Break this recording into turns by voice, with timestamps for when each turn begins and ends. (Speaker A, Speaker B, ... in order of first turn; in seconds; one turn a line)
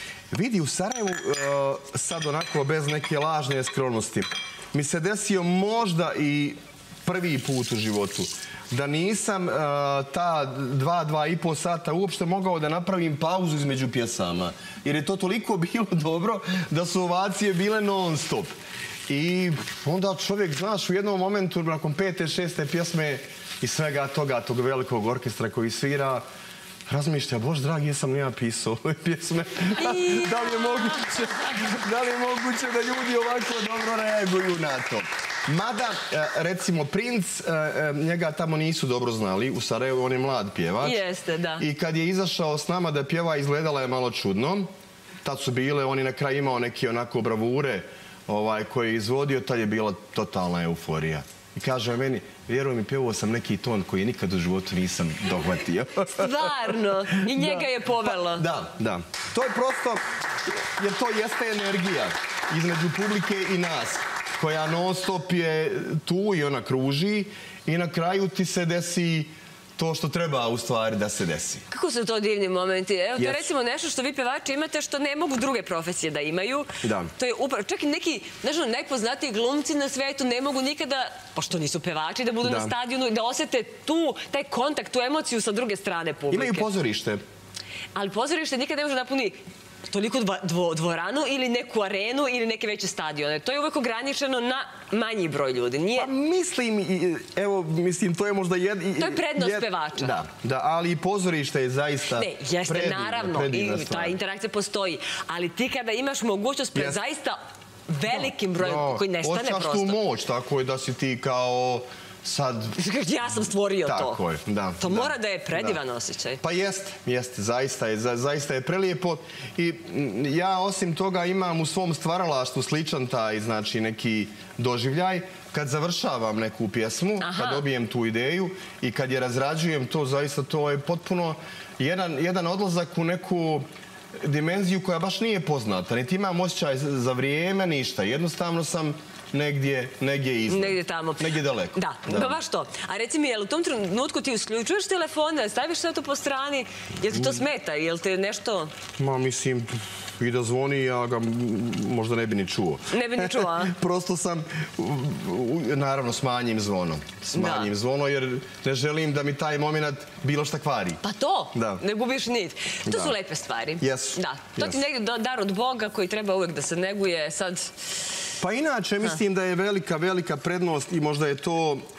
Speaker A: 0.3-18.5
Speaker A: 19.1-26.2
Speaker A: 26.9-41.0
Speaker B: 29.7-31.3
Speaker B: 40.8-41.6
Speaker A: 41.6-44.7
Speaker A: 45.2-56.5
Speaker B: 56.2-58.5
Speaker A: 57.1-71.6
Speaker B: 71.7-86.7
Speaker A: 73.2-73.5
Speaker A: 76.8-77.1
Speaker A: 82.4-82.7
Speaker A: 86.3-87.2
Speaker B: 87.9-96.1
Speaker A: 95.9-104.2
Speaker B: 99.0-100.1
Speaker B: 102.1-110.0
Speaker A: 106.7-107.0
Speaker A: 108.1-112.8
Speaker B: 112.8-114.2
Speaker A: 113.8-115.8
Speaker B: 114.8-116.4
Speaker A: 116.4-142.4
Speaker B: 127.2-127.6
Speaker B: 140.5-148.7
Speaker A: 147.1-147.4
Speaker A: 149.0-161.0
Speaker B: 152.9-153.7
Speaker B: 157.3-157.7
Speaker B: 161.0-167.7
Speaker A: 161.5-161.8
Speaker A: 162.8-163.1
Speaker A: 163.8-164.8
Speaker A: 168.4-171.8